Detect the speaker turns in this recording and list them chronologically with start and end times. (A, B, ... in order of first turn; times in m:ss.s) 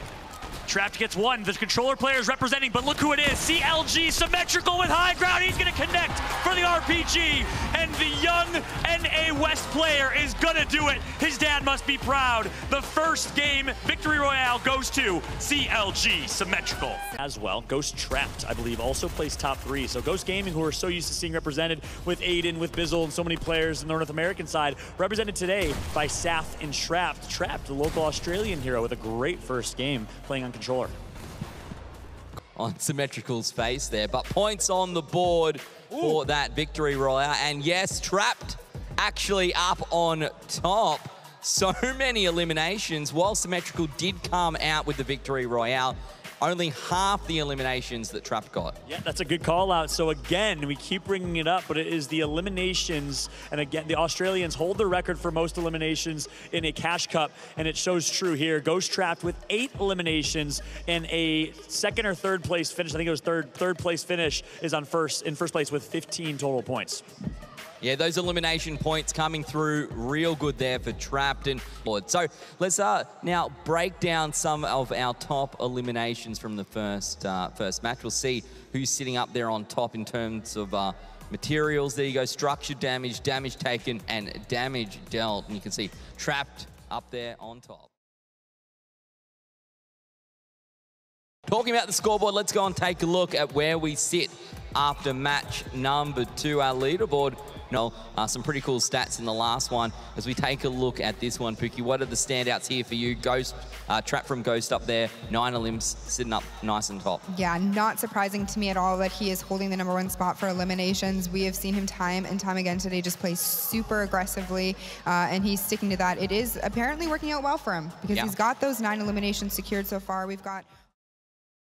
0:00.7-0:30.9 A
0:32.6-0:48.8 B
0:48.9-1:07.0 A
1:07.8-1:27.9 B
1:31.5-1:47.2 B
1:47.3-2:00.7 C
1:58.1-1:58.4 B